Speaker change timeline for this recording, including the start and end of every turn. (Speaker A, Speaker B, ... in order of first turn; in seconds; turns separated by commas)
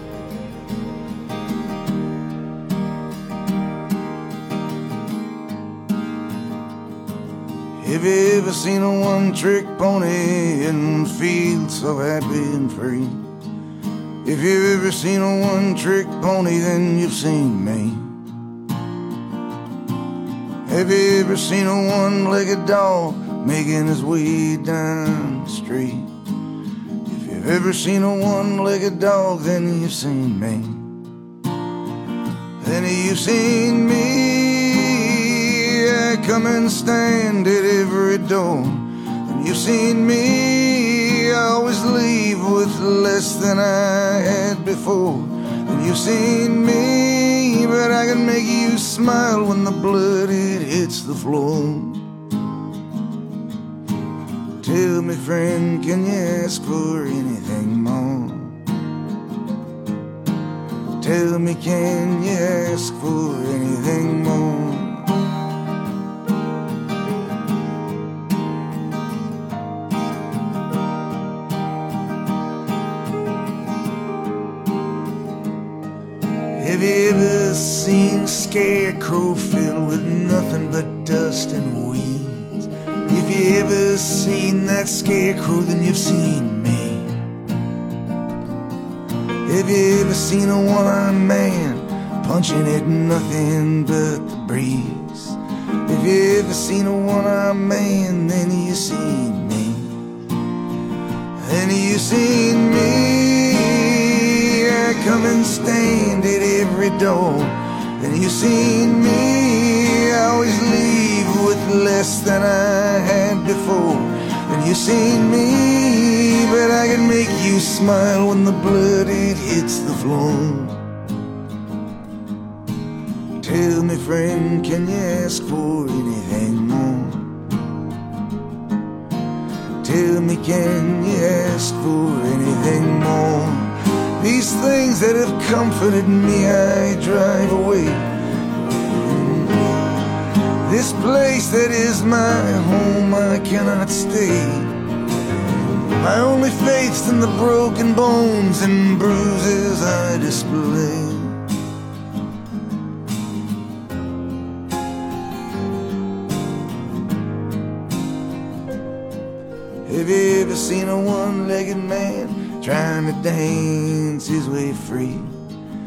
Speaker A: 7.8-13.3, Speaker A: 14.2-18.1, Speaker A: 20.6-26.1, Speaker A: 27.0-30.9, Speaker A: 32.6-52.0, Speaker A: 54.6-58.6, Speaker A: 61.0-65.1, Speaker A: 76.5-87.2, Speaker A: 89.4-100.0, Speaker A: 101.4-120.8, Speaker A: 123.4-127.4, Speaker A: 129.8-138.1, Speaker A: 138.8-144.8, Speaker A: 145.9-151.4, Speaker A: 159.8-165.4